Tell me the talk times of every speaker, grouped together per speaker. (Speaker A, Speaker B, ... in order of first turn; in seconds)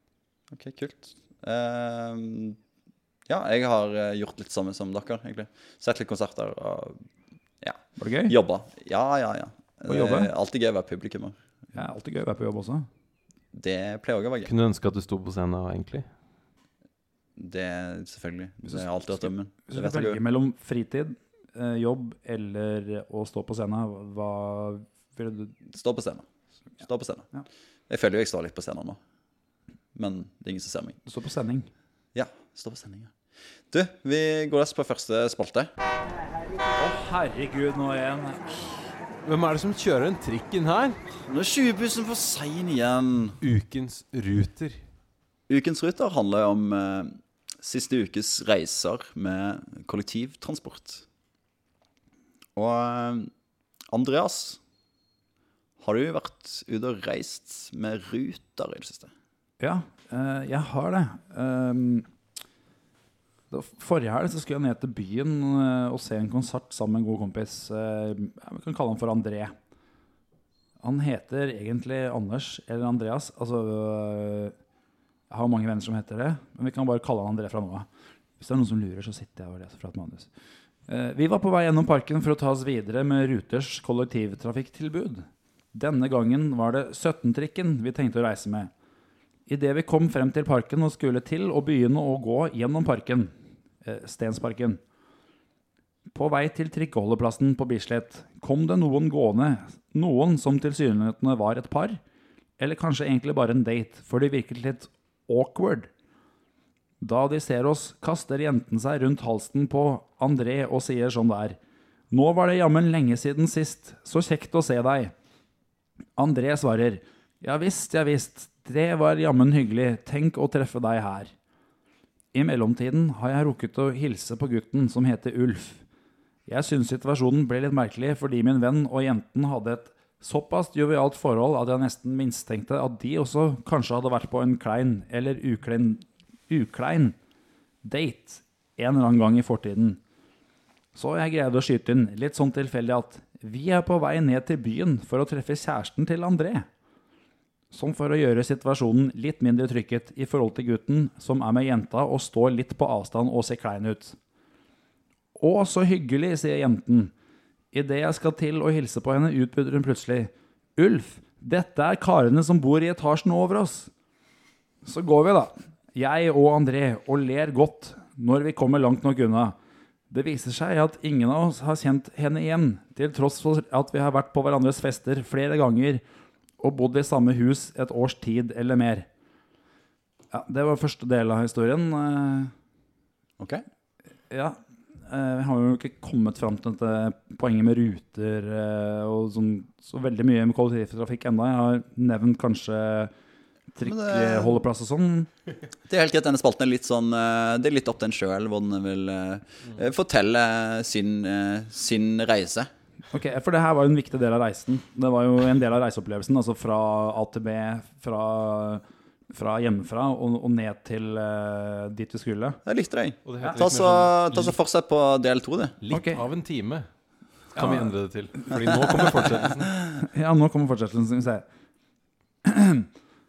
Speaker A: 0.5-2.6, 3.3-7.0, 7.6-11.4, 13.5-14.5, 17.4-20.2, 25.7-26.2, 26.8-27.3, 27.9-29.0, 29.9-31.0, 32.1-33.1, 33.7-35.7, 41.3-43.4, 45.5-51.0, 52.6-53.3, 53.9-54.6, 55.8-59.1, 193.8-194.6, 195.9-202.7, 212.7-215.8
Speaker B: 8.0-8.4, 9.9-10.3, 11.7-12.9, 18.6-25.6, 31.1-31.7, 36.8-38.8, 59.6-62.1, 63.5-69.5, 70.8-74.5, 75.3-77.9, 78.4-80.3, 80.9-88.7, 89.5-93.3, 93.8-94.8, 96.1-102.0, 102.6-105.9, 107.0-111.6, 112.1-115.1, 116.2-121.3, 122.3-125.8, 126.5-137.2, 137.8-140.0, 140.9-146.7, 147.7-154.2, 155.4-157.1, 157.7-163.9, 164.8-169.5, 170.1-176.0, 176.6-179.1, 180.3-182.5, 184.3-184.6, 185.1-193.1, 193.7-195.3, 203.1-212.6, 215.9-216.2, 217.6-217.9, 219.9-221.4, 222.4-222.9
Speaker C: 14.4-16.1, 39.2-41.0, 43.4-44.8, 213.2-214.6, 215.8-216.9, 217.5-219.7